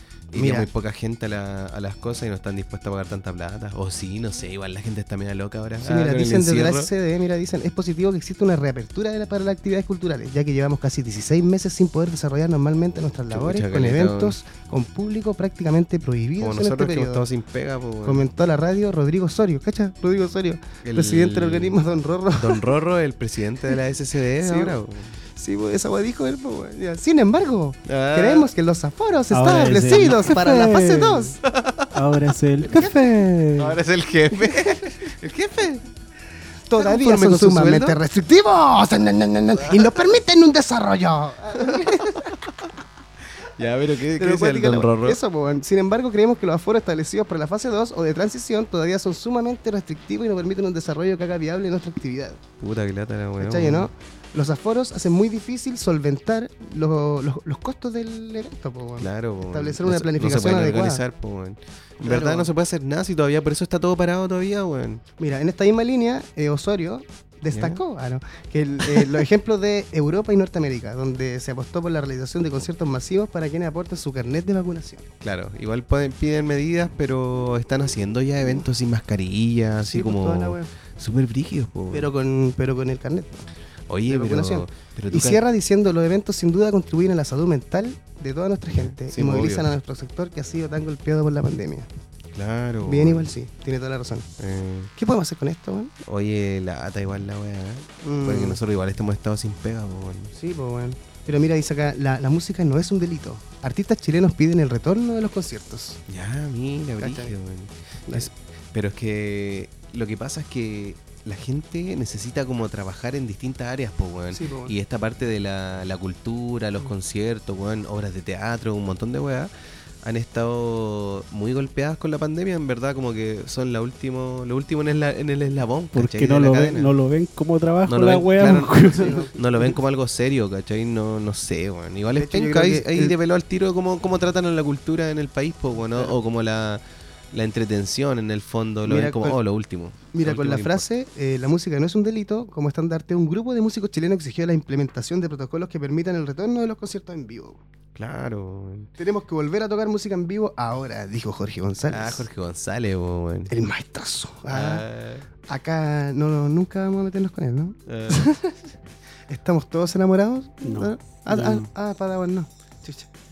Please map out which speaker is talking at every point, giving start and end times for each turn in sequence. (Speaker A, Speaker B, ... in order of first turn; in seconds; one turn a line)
Speaker A: 0.3-6.9
Speaker B: 0.3-0.7
Speaker B: 5.8-17.3
Speaker A: 13.3-14.4
Speaker A: 16.4-18.3
Speaker B: 18.1-22.7
Speaker A: 20.8-21.8
Speaker A: 22.4-25.1
Speaker B: 24.4-24.8
Speaker B: 25.4-31.4
Speaker A: 27.9-28.5
Speaker C: 29.3-31.4
Speaker A: 31.5-31.9
Speaker C: 31.9-33.5
Speaker B: 32.6-33.7
Speaker A: 33.6-35.9
Speaker B: 34.4-34.9
Speaker B: 36.7-42.4
Speaker A: 36.8-38.0
Speaker A: 41.7-42.4
Speaker A: 43.4-45.2
Speaker B: 44.1-52.4
Speaker A: 52.6-53.9
Speaker B: 53.4-61.0
Speaker A: 59.0-65.0
Speaker B: 62.0-62.5
Speaker B: 65.2-75.1
Speaker A: 67.5-67.8
Speaker A: 68.8-69.2
Speaker A: 75.2-82.1
Speaker B: 79.8-80.7
Speaker B: 81.9-83.5
Speaker A: 83.9-85.4
Speaker B: 84.1-91.9
Speaker A: 88.8-89.8
Speaker A: 92.3-93.3
Speaker B: 92.8-94.3
Speaker A: 94.4-94.9
Speaker B: 95.0-95.9
Speaker A: 96.0-100.3
Speaker B: 98.0-98.6
Speaker B: 100.3-106.0
Speaker A: 106.1-119.5
Speaker B: 107.0-107.3
Speaker B: 114.3-114.7
Speaker A: 120.0-127.0
Speaker C: 125.9-129.2
Speaker A: 127.8-140.8
Speaker B: 128.9-129.3
Speaker B: 132.2-133.2
Speaker B: 138.8-139.4
Speaker B: 140.1-147.6
Speaker A: 147.9-148.9
Speaker B: 149.0-152.3
Speaker A: 151.9-153.5
Speaker B: 153.5-154.8
Speaker A: 154.5-155.3
Speaker B: 155.5-158.6
Speaker A: 157.9-158.3
Speaker B: 159.3-163.1
Speaker C: 160.7-161.3